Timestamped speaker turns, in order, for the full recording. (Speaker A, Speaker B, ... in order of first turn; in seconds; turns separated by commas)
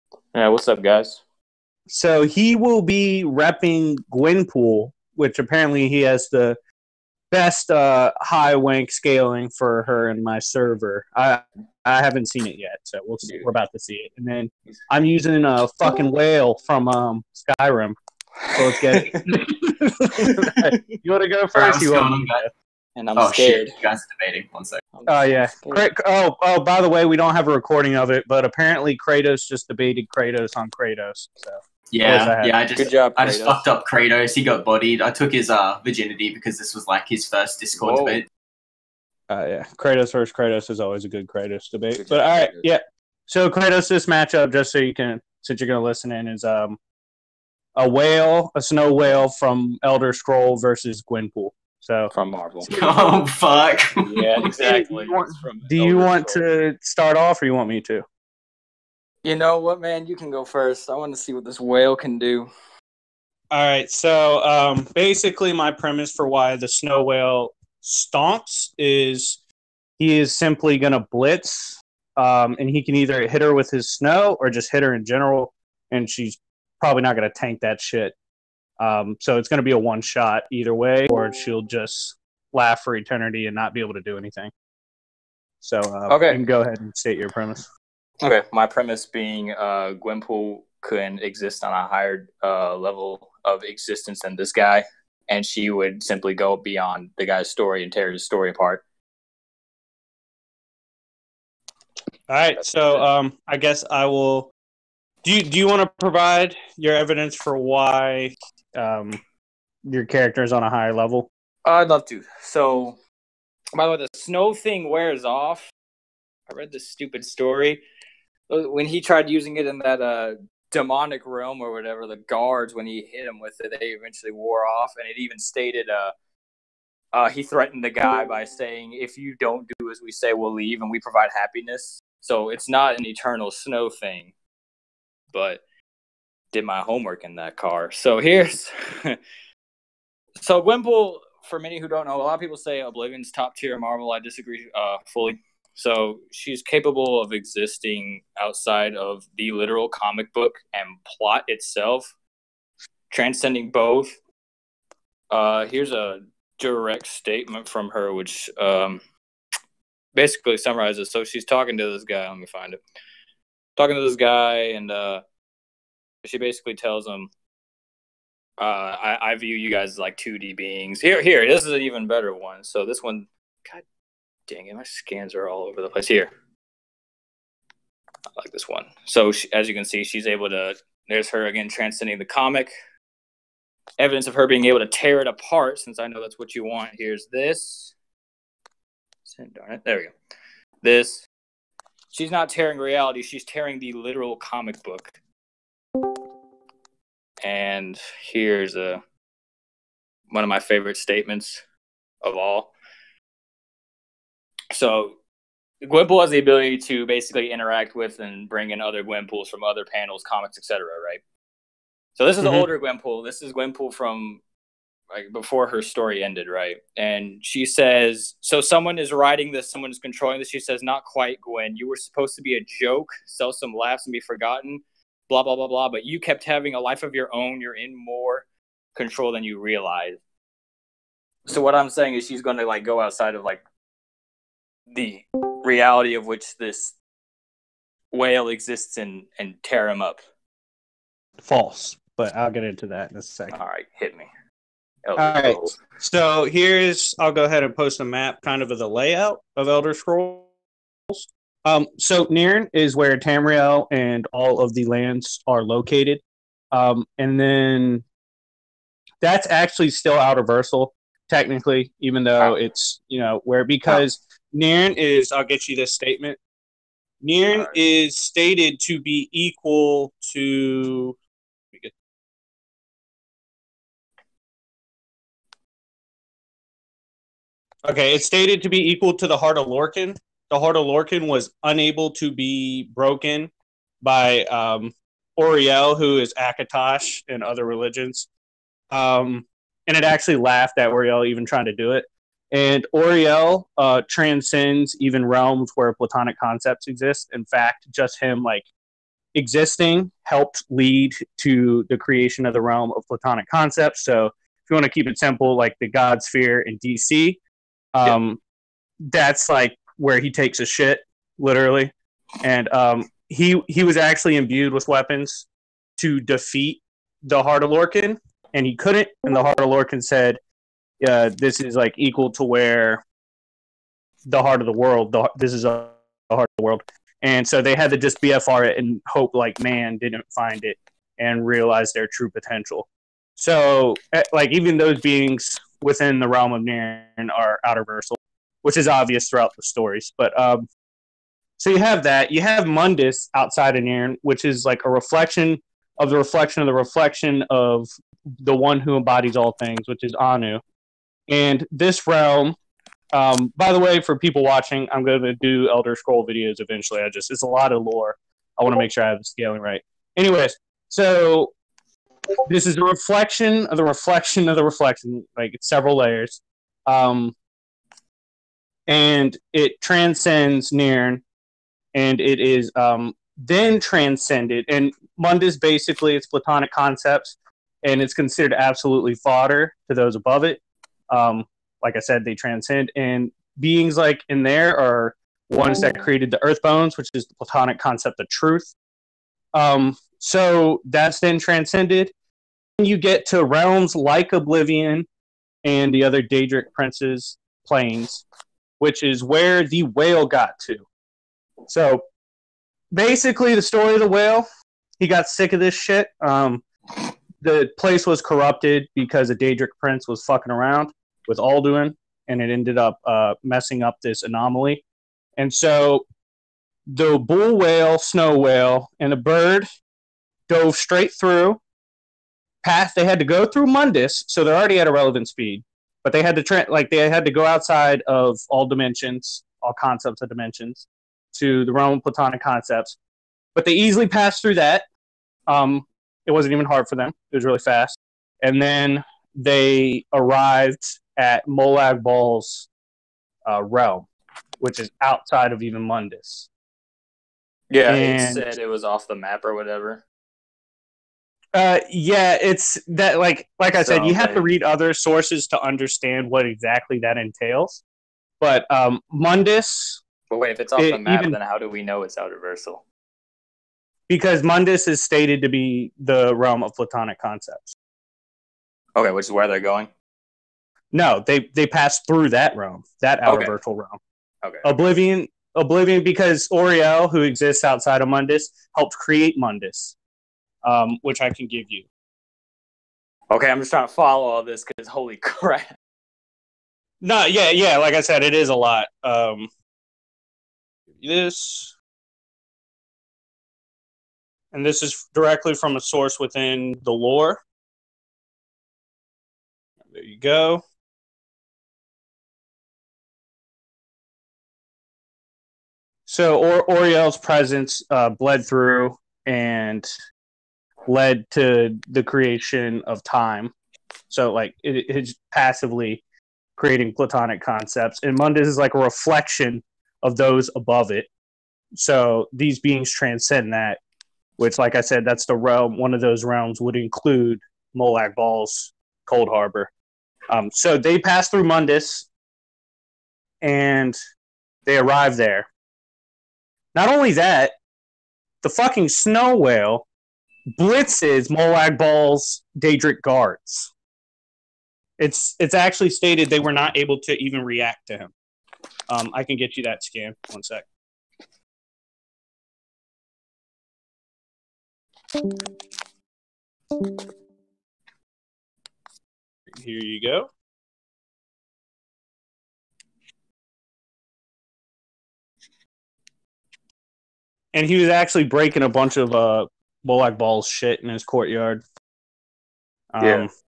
Speaker A: 0.3-1.2, Speaker B: 1.9-6.6, Speaker B: 7.3-18.0, Speaker A: 18.4-19.2, Speaker B: 18.6-22.5, Speaker A: 20.2-21.0, Speaker C: 21.5-22.4, Speaker A: 22.9-23.7, Speaker C: 23.1-24.8, Speaker A: 24.9-25.9, Speaker B: 25.1-32.5, Speaker C: 31.9-38.2, Speaker A: 32.7-33.6, Speaker A: 37.8-38.2, Speaker B: 39.3-46.8, Speaker A: 42.0-42.7, Speaker B: 47.8-52.1, Speaker A: 52.1-52.7, Speaker C: 52.7-54.5, Speaker A: 54.0-56.4, Speaker B: 54.6-58.0, Speaker A: 59.2-62.5, Speaker B: 63.5-69.4, Speaker B: 70.0-78.1, Speaker B: 78.8-84.5, Speaker B: 85.6-87.7, Speaker A: 86.1-86.4, Speaker A: 88.2-98.8, Speaker B: 102.3-104.5, Speaker A: 102.5-103.1, Speaker B: 105.2-109.2, Speaker B: 109.8-111.3, Speaker A: 111.6-113.0, Speaker A: 113.7-115.7, Speaker A: 116.5-117.8, Speaker A: 118.5-126.1, Speaker A: 127.1-134.3, Speaker A: 135.3-135.6, Speaker A: 136.5-139.2, Speaker A: 140.4-152.1, Speaker A: 153.1-154.2, Speaker A: 155.3-159.0, Speaker A: 160.1-162.8, Speaker A: 163.8-165.2, Speaker A: 166.2-167.3, Speaker A: 168.6-173.8, Speaker A: 174.5-176.3, Speaker A: 178.4-182.7, Speaker A: 184.0-187.9, Speaker A: 189.2-190.1, Speaker A: 190.8-191.3, Speaker A: 192.1-195.1, Speaker A: 197.4-199.0, Speaker A: 200.3-201.6, Speaker A: 202.2-202.7, Speaker A: 204.7-205.2, Speaker A: 205.8-211.2, Speaker A: 212.2-214.4, Speaker B: 212.4-212.7, Speaker A: 215.1-230.2, Speaker A: 231.4-233.6, Speaker A: 234.9-236.9, Speaker A: 238.1-240.2, Speaker B: 241.4-243.6, Speaker A: 243.5-244.3, Speaker A: 245.0-245.8, Speaker B: 245.2-250.5, Speaker B: 251.1-256.2, Speaker B: 256.7-258.0, Speaker B: 259.2-266.4, Speaker B: 267.2-271.2, Speaker A: 267.5-267.8, Speaker B: 277.8-283.5, Speaker B: 284.0-288.3, Speaker B: 288.9-298.7, Speaker B: 299.3-307.4, Speaker B: 307.9-308.4, Speaker B: 309.0-315.5, Speaker B: 316.0-320.4, Speaker B: 321.0-323.0, Speaker B: 324.2-340.6, Speaker B: 341.6-350.6, Speaker B: 351.3-352.6, Speaker B: 353.1-361.5, Speaker B: 362.5-367.3, Speaker B: 368.9-371.2, Speaker B: 371.9-388.7, Speaker B: 389.5-392.1, Speaker B: 392.8-395.1, Speaker B: 395.6-398.2, Speaker B: 398.8-400.8, Speaker B: 401.7-402.0, Speaker B: 402.9-404.5, Speaker B: 405.0-406.6, Speaker B: 407.4-414.8, Speaker B: 415.4-416.0, Speaker B: 416.9-419.7, Speaker B: 420.5-421.6, Speaker B: 422.6-433.0, Speaker B: 433.5-434.8, Speaker B: 435.5-442.7, Speaker B: 443.4-444.1, Speaker B: 444.6-446.5, Speaker A: 447.7-450.0, Speaker B: 447.9-448.5, Speaker B: 451.5-457.8, Speaker A: 453.8-454.5, Speaker B: 458.4-460.0, Speaker A: 460.3-462.8, Speaker B: 460.8-461.4, Speaker B: 464.1-467.7, Speaker A: 468.9-469.9, Speaker B: 470.9-474.0, Speaker A: 473.2-473.5, Speaker B: 474.6-479.9, Speaker B: 480.6-481.9, Speaker A: 483.3-485.7, Speaker B: 487.0-489.5, Speaker B: 491.0-491.7, Speaker B: 494.5-497.4, Speaker B: 499.9-500.6, Speaker B: 506.1-509.9, Speaker B: 510.9-513.5, Speaker B: 514.1-516.0, Speaker B: 516.6-521.1, Speaker B: 521.7-523.8, Speaker B: 524.4-529.7, Speaker B: 530.3-532.1, Speaker B: 533.4-534.0, Speaker B: 534.6-535.5, Speaker B: 536.7-537.5, Speaker B: 538.4-539.9, Speaker B: 540.6-543.7, Speaker B: 545.0-548.1, Speaker B: 548.9-550.7, Speaker B: 559.5-560.3, Speaker B: 567.5-571.6, Speaker B: 572.9-573.3, Speaker A: 573.0-573.2